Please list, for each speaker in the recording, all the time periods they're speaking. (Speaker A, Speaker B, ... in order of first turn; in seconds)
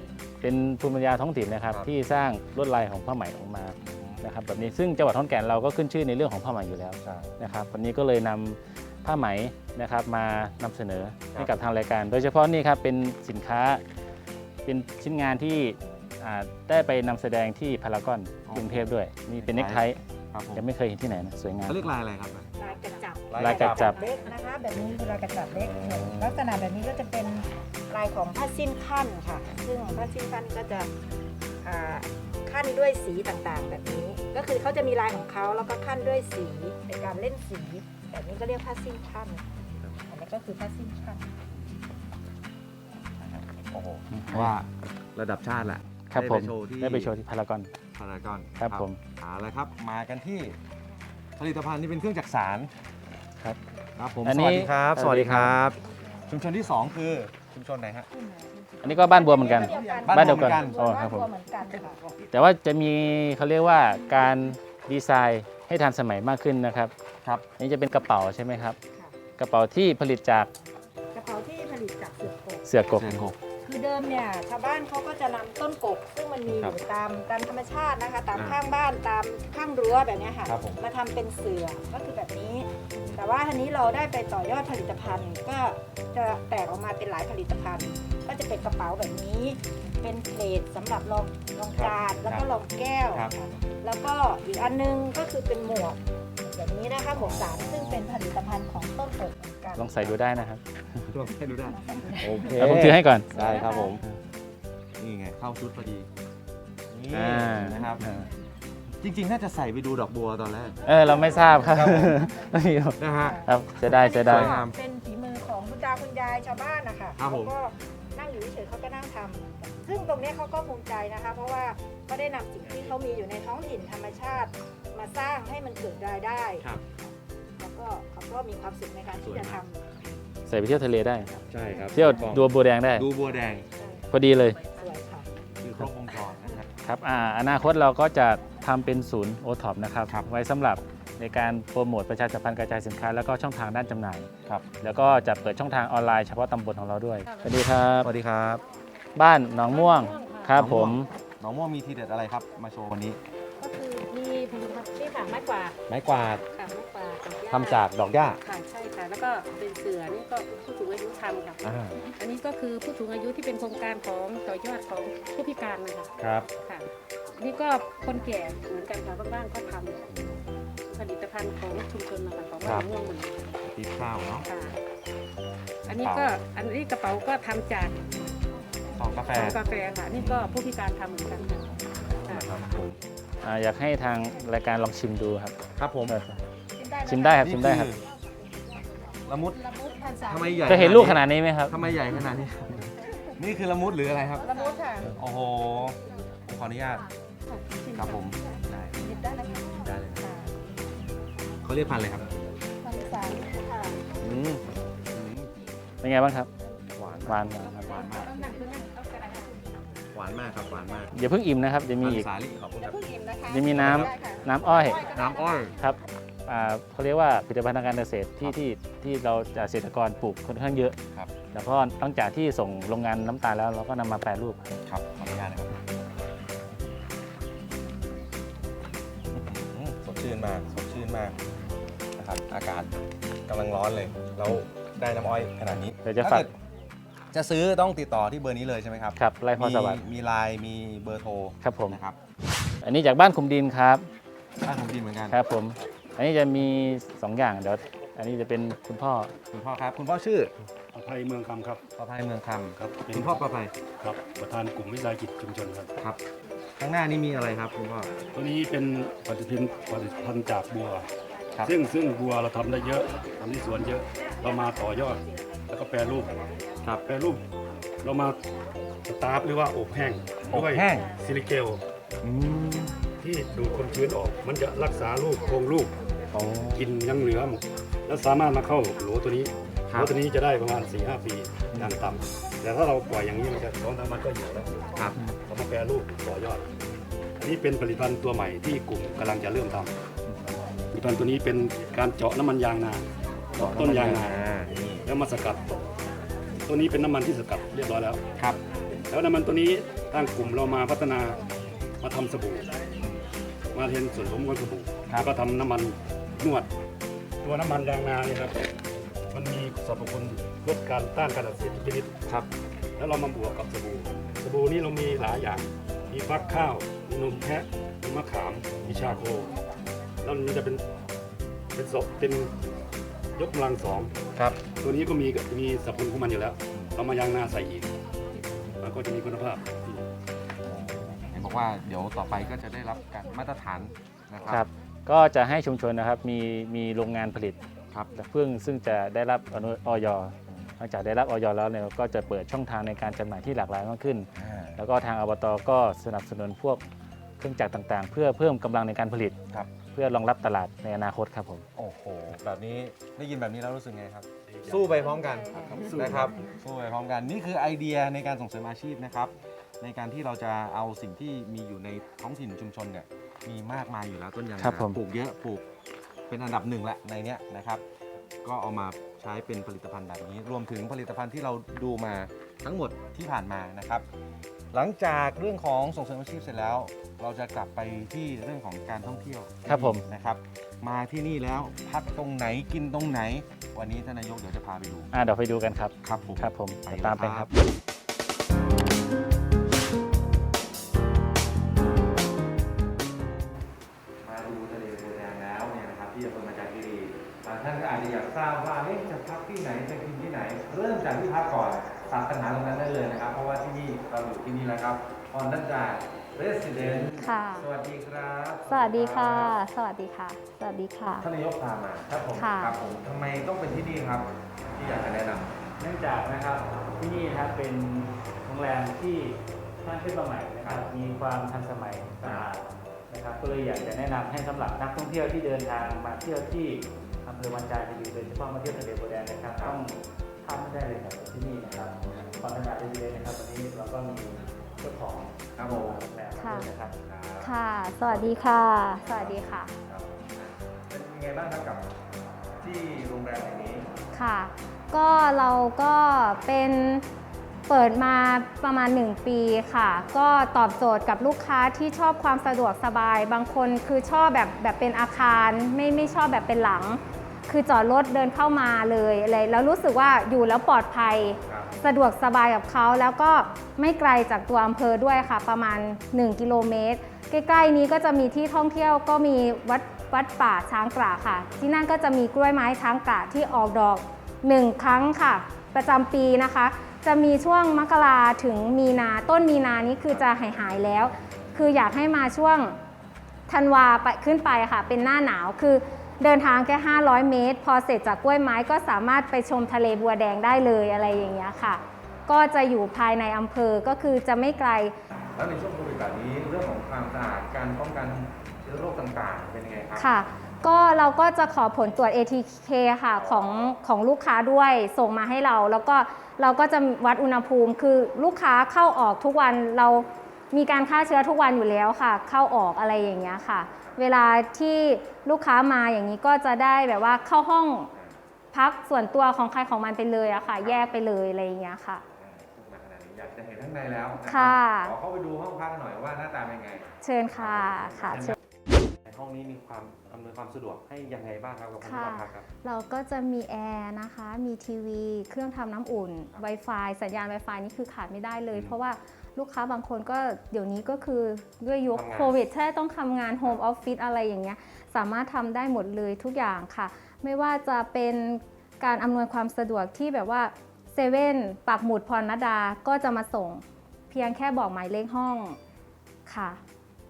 Speaker A: 0.4-13.8, 14.7-20.0, 20.5-21.9, 23.4-24.0, 44.1-44.5, 46.1-47.7, 48.6-49.0, 54.2-55.6, 58.8-61.3, 62.3-66.9, 67.6-68.8, 69.4-70.5, 72.6-73.3, 99.7-101.1, 102.4-103.3, 107.1-107.9, 110.8-114.6, 130.5-131.3, 131.9-133.1, 134.1-134.6, 136.8-144.3, 144.8-148.1, 149.2-151.1, 183.4-185.5, 186.1-186.4, 187.0-187.9, 190.7-191.7, 206.0-206.5, 207.2-208.1, 211.1-212.3, 213.5-215.0, 215.8-221.0, 221.5-224.6, 236.0-236.5, 239.2-240.0, 241.6-242.0, 242.8-244.1, 245.3-249.3, 334.5-337.6, 338.1-346.8, 347.4-349.4, 349.9-351.6, 355.8-356.3, 364.6-365.0, 379.6-380.0, 385.1-387.5, 412.1-412.5, 415.8-436.9
Speaker B: 3.8-4.2, 7.0-7.3, 18.5-20.6, 21.6-22.5, 23.3-24.0, 25.5-26.4, 39.8-40.0, 43.2-47.1, 47.9-50.6, 51.4-52.7, 54.0-58.1, 59.5-60.8, 72.9-73.4, 76.5-76.8, 78.3-78.6, 80.5-80.8, 82.9-83.2, 91.8-92.5, 97.1-98.0, 101.1-104.0, 105.0-106.1, 106.9-108.3, 109.0-112.2, 113.0-114.8, 117.2-117.5, 129.2-129.6, 131.5-133.7, 135.6-136.7, 148.0-148.6, 150.5-153.2, 155.9-156.4, 157.5-158.4, 161.6-162.0, 166.2-166.5, 170.1-170.5, 172.6-172.9, 173.6-174.5, 176.0-176.4, 178.9-180.6, 182.0-183.0, 185.8-186.2, 187.4-188.0, 189.3-189.6, 190.2-194.5, 195.0-197.1, 197.9-199.1, 199.8-200.3, 201.6-202.3, 204.2-205.5, 206.9-208.3, 210.1-211.1, 212.0-213.0, 213.7-214.1, 215.0-215.8, 224.8-225.8, 229.3-231.4, 232.2-236.5, 237.3-242.2, 244.6-245.4, 249.5-250.5, 252.0-253.7, 256.0-256.2, 256.8-258.1, 270.5-271.1, 272.2-273.0, 276.3-276.9, 279.9-280.1, 285.0-285.3, 293.6-295.0, 318.8-319.2, 324.4-324.6, 330.6-334.6, 340.5-340.8, 344.4-344.8, 351.8-365.7, 366.3-367.8, 368.4-374.0, 374.7-385.1, 386.0-387.5, 394.2-409.6, 411.2-415.5, 420.6-420.9, 422.2-422.5, 429.6-429.8, 432.0-432.2, 435.6-436.0, 437.0-438.4, 439.0-442.0, 442.6-443.9, 461.4-461.7, 480.1-480.5, 495.3-500.1, 503.2-503.8, 520.5-520.9, 522.1-528.4, 528.9-532.5, 541.9-542.5
Speaker C: 22.6-30.9, 31.6-41.3, 58.1-62.3, 68.9-69.2, 71.1-72.7, 73.6-96.0, 96.5-100.4, 101.9-102.5, 103.3-104.0, 111.1-111.7, 113.1-126.7, 127.6-129.8, 133.8-134.0, 134.7-135.3, 186.8-187.4, 189.6-190.9, 194.4-195.1, 197.6-198.0, 199.0-200.5, 202.8-204.0, 212.8-215.3, 355.1-355.6
Speaker D: 147.2-147.7, 149.7-150.7, 153.6-155.8, 156.5-157.8, 158.4-170.0, 170.8-173.5, 174.4-174.8, 175.8-178.1, 179.3-182.6, 207.9-209.6
Speaker E: 250.9-251.8, 252.8-253.4, 254.0-255.9, 258.3-261.1, 261.6-266.5, 267.1-267.4, 268.0-268.4, 269.1-271.8, 273.2-275.9, 276.7-284.9, 285.5-286.6, 287.4-289.9, 290.9-293.0, 293.5-294.5, 295.1-295.9, 296.6-298.2, 299.1-301.4, 302.0-302.7, 303.7-306.7, 307.4-308.6, 309.3-312.1, 313.0-319.5, 320.2-320.8, 321.8-322.5, 323.4-324.1, 324.8-327.9, 328.8-330.0, 354.5-356.4
Speaker F: 407.1-407.7, 408.7-411.3, 412.4-412.7, 436.4-436.7, 437.4-439.7, 444.1-447.1, 447.7-482.8, 483.5-494.9, 500.0-517.9, 518.5-522.0, 524.2-524.9, 527.0-528.4, 531.8-555.6, 556.3-556.6